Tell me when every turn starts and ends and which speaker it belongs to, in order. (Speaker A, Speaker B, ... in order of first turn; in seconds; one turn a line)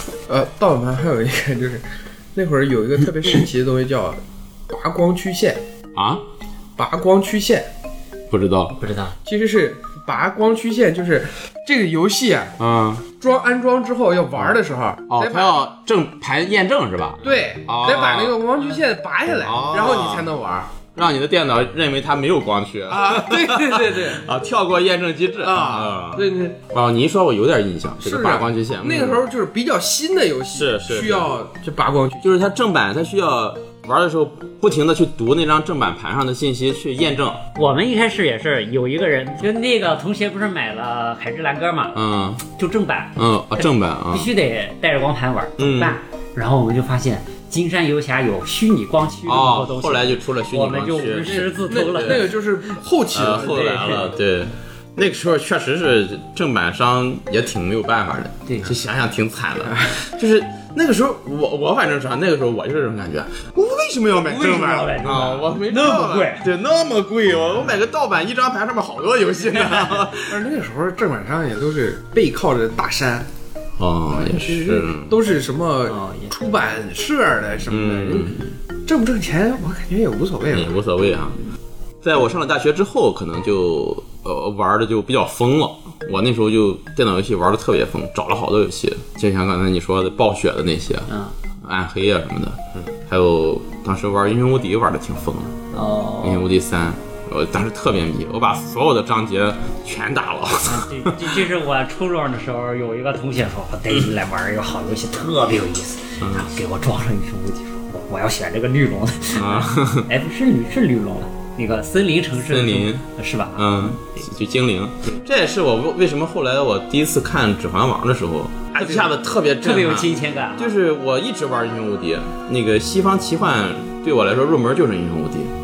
Speaker A: 0.3-5.6
Speaker B: 6.0-6.2
Speaker A: 6.8-7.7
Speaker B: 8.3-8.8
Speaker C: 8.8-9.2
Speaker A: 9.2-12.6
Speaker B: 12.6-13.1
Speaker A: 13.2-15.7
Speaker B: 14.4-18.4
Speaker A: 17.2-20.7
Speaker B: 19.4-20.3
Speaker B: 20.9-29.2
Speaker A: 22.9-24.3
Speaker A: 25.4-26.6
Speaker A: 28.0-32.4
Speaker B: 30.5-31.3
Speaker B: 32.2-37.4
Speaker C: 37.6-42.0
Speaker B: 42.0-42.4
Speaker C: 42.6-52.7
Speaker B: 43.2-44.3
Speaker B: 45.6-46.0
Speaker B: 49.3-52.3
Speaker A: 51.6-54.1
Speaker B: 53.1-70.4
Speaker C: 53.3-54.1
Speaker C: 58.5-58.7
Speaker A: 59.7-60.0
Speaker C: 64.2-66.5
Speaker A: 70.2-73.3
Speaker B: 73.8-75.2
Speaker A: 74.3-80.8
Speaker C: 75.9-76.3
Speaker B: 77.7-78.5
Speaker B: 80.5-81.4
Speaker B: 82.0-91.1
Speaker C: 91.1-91.3
Speaker B: 91.6-95.6
Speaker C: 95.7-96.4
Speaker B: 96.2-101.5
Speaker C: 100.7-113.9
Speaker B: 106.2-106.5
Speaker B: 109.3-110.1
Speaker B: 112.4-113.0
Speaker B: 113.6-125.5
Speaker C: 118.8-119.1
Speaker C: 119.6-120.8